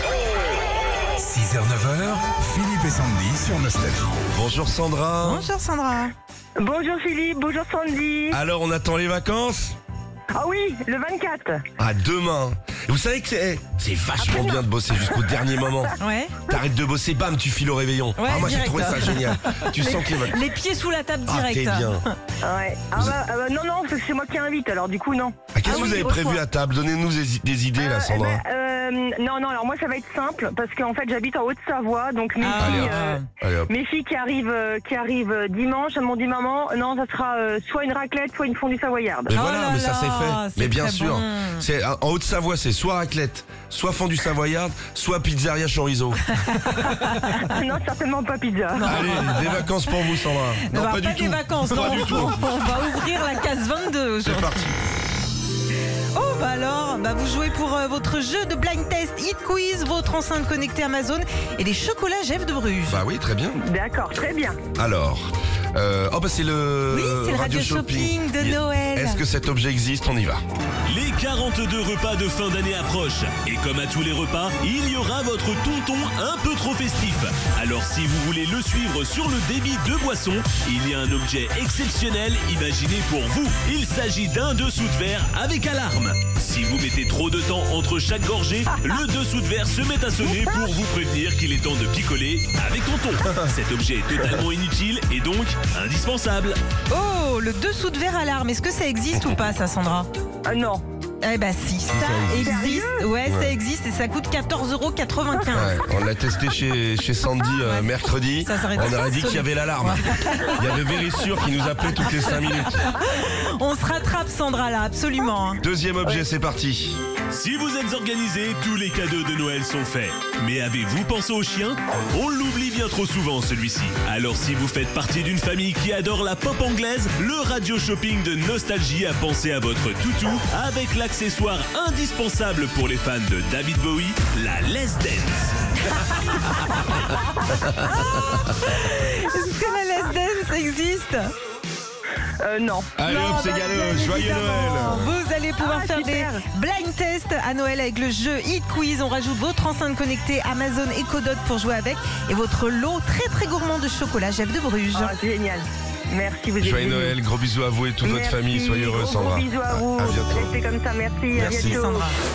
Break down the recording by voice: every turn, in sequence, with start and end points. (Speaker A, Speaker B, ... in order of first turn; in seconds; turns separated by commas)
Speaker A: 1.2-4.2, Speaker B: 4.3-5.5, Speaker C: 5.2-6.1, Speaker D: 6.6-8.4, Speaker B: 8.3-9.8, Speaker D: 10.3-11.6, Speaker B: 11.8-15.9, Speaker D: 14.2-15.3, Speaker C: 16.0-16.4, Speaker B: 16.5-20.4, Speaker C: 18.2-22.2, Speaker B: 21.2-22.0, Speaker D: 22.4-26.4, Speaker B: 25.5-28.4, Speaker C: 25.6-26.2, Speaker D: 27.8-39.3, Speaker C: 32.4-33.2, Speaker B: 32.5-33.7, Speaker B: 39.3-46.4, Speaker C: 39.3-41.6, Speaker C: 46.3-47.5, Speaker D: 47.4-49.0, Speaker C: 48.8-49.8, Speaker B: 48.8-52.5, Speaker C: 50.6-54.7, Speaker B: 54.2-54.8, Speaker C: 56.1-63.0, Speaker B: 62.9-63.6, Speaker D: 63.6-64.6, Speaker B: 64.7-70.4, Speaker C: 66.9-69.2, Speaker E: 70.9-96.6, Speaker C: 96.9-100.1, Speaker D: 100.5-100.8, Speaker C: 101.2-105.8, Speaker B: 101.9-102.5, Speaker D: 102.3-103.0, Speaker B: 103.2-103.5, Speaker B: 105.5-112.8, Speaker C: 107.6-111.0, Speaker C: 111.9-116.2, Speaker B: 115.6-117.0, Speaker E: 117.3-136.6, Speaker C: 137.6-141.3, Speaker D: 142.4-142.9, Speaker B: 142.9-145.1, Speaker C: 143.0-155.1, Speaker D: 145.6-146.4, Speaker D: 154.9-157.2, Speaker B: 156.6-160.5, Speaker D: 158.0-162.1, Speaker B: 161.3-161.8, Speaker C: 161.4-162.2